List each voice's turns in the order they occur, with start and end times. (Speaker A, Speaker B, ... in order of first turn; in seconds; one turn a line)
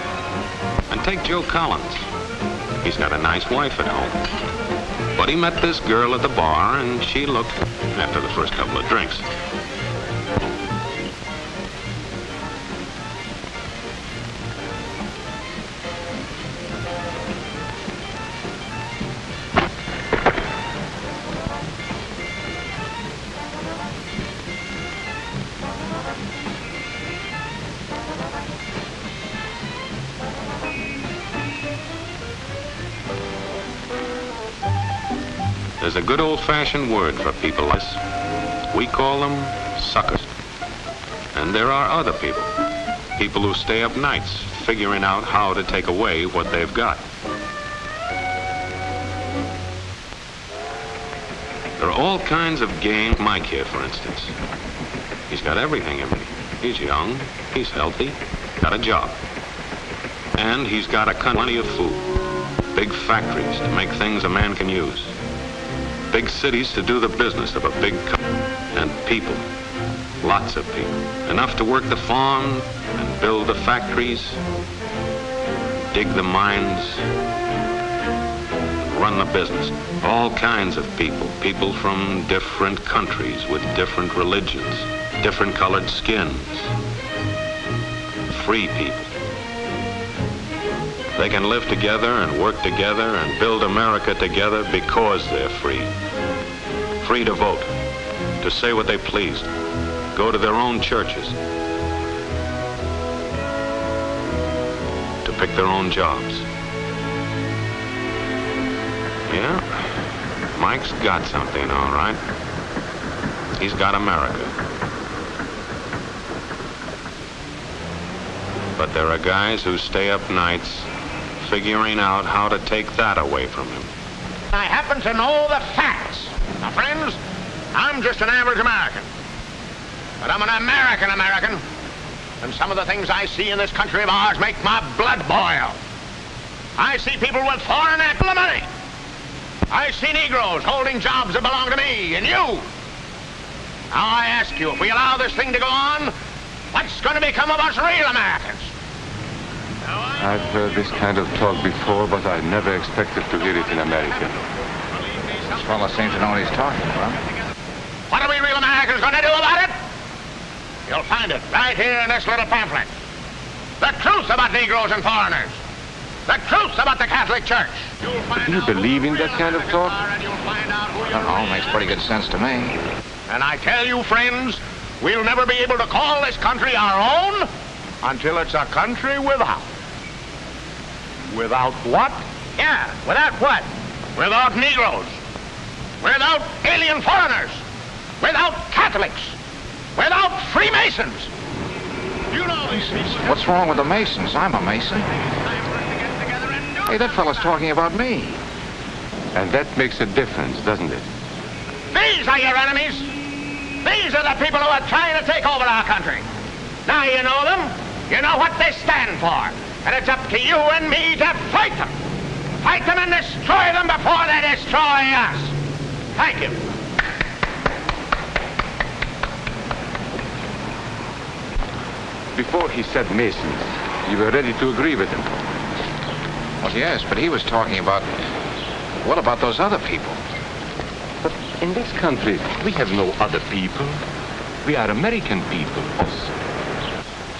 Speaker A: 0.9-2.0
Speaker A: 2.8-4.2
Speaker A: 5.1-9.2
Speaker A: 35.8-38.0
Speaker A: 38.7-40.3
Speaker A: 41.3-42.5
Speaker A: 43.2-47.0
Speaker A: 51.8-54.3
Speaker A: 55.3-59.1
Speaker A: 60.4-62.1
Speaker A: 62.7-65.1
Speaker A: 66.1-68.2
Speaker A: 68.7-69.4
Speaker A: 70.2-74.4
Speaker A: 75.9-77.0
Speaker A: 78.8-86.7
Speaker A: 88.3-89.1
Speaker A: 91.2-95.9
Speaker A: 97.0-97.7
Speaker A: 98.4-99.5
Speaker A: 100.1-101.3
Speaker A: 105.2-106.4
Speaker A: 109.3-109.6
Speaker A: 110.5-112.2
Speaker A: 113.6-114.5
Speaker A: 118.8-120.9
Speaker A: 121.4-123.9
Speaker B: 124.5-127.2
Speaker B: 127.7-129.0
Speaker B: 130.2-131.6
Speaker B: 132.4-135.8
Speaker B: 136.8-138.7
Speaker B: 139.7-142.7
Speaker B: 143.9-146.1
Speaker B: 146.7-148.7
Speaker C: 150.2-154.4
Speaker D: 155.5-157.2
Speaker B: 158.1-159.7
Speaker B: 160.9-162.9
Speaker B: 163.8-165.6
Speaker B: 166.3-171.6
Speaker C: 168.3-170.0
Speaker D: 171.0-172.8
Speaker B: 173.3-177.5
Speaker B: 178.0-179.7
Speaker B: 181.3-185.1
Speaker B: 186.0-187.6
Speaker B: 188.2-189.3
Speaker B: 190.0-191.3
Speaker B: 192.3-193.2
Speaker D: 193.1-195.1
Speaker D: 196.8-198.4
Speaker C: 199.3-201.1
Speaker B: 201.9-203.1
Speaker B: 203.8-206.2
Speaker B: 206.8-211.9
Speaker B: 212.6-215.5
Speaker B: 216.2-216.6
Speaker C: 222.3-225.3
Speaker D: 226.6-228.1
Speaker D: 229.0-230.2
Speaker C: 231.2-234.0
Speaker C: 234.6-236.3